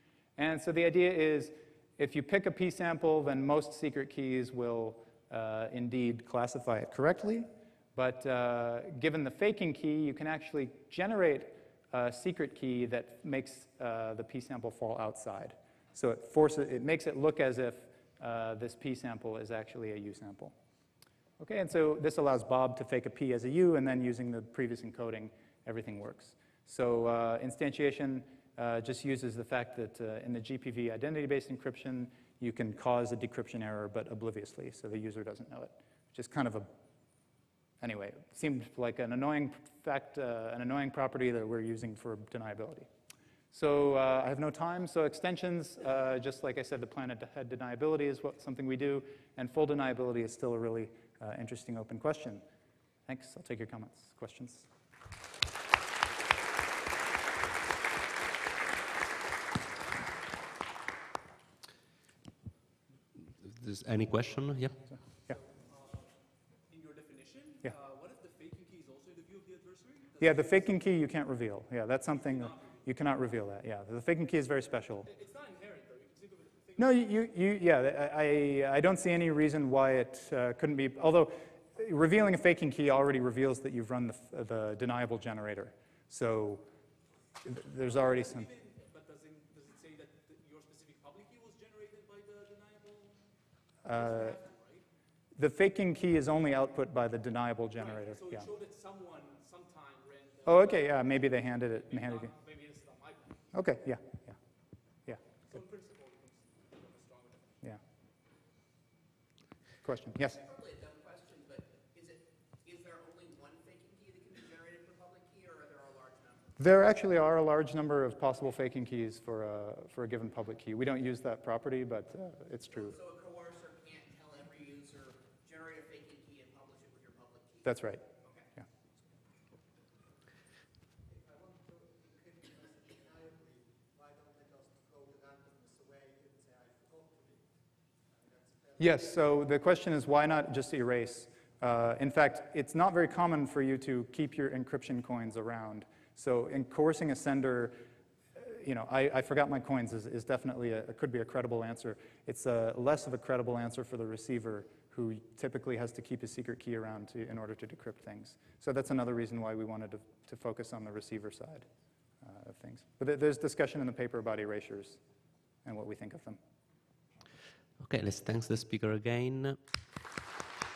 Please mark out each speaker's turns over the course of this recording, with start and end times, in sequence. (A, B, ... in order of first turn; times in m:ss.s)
0:00.4-0:20.5 A
0:21.4-0:36.7 A
0:37.8-0:42.9 A
0:43.5-0:52.4 A
0:53.1-0:54.7 A
1:03.4-1:04.8 B
1:05.3-1:06.1 C
1:06.7-1:10.8 C
1:10.2-1:15.1 A
1:12.2-1:12.6 C
1:15.1-1:17.2 C
1:16.8-1:26.6 A
1:27.4-1:28.5 A
1:27.8-1:33.2 C
1:33.8-1:34.4 A
1:33.9-1:34.8 C
1:35.4-1:38.5 A
1:37.8-1:40.9 C
1:40.5-1:42.3 A
1:41.7-1:43.5 C
1:43.5-1:44.4 A
1:45.5-1:47.6 C
1:49.8-1:50.4 A
1:50.3-1:56.6 D
1:56.6-2:03.0 A
2:02.7-2:08.5 D
2:07.6-2:08.0 A
2:18.8-2:27.8 A
2:28.4-2:41.7 A
2:42.2-2:45.0 A
2:45.6-2:46.4 A
2:47.8-2:49.6 B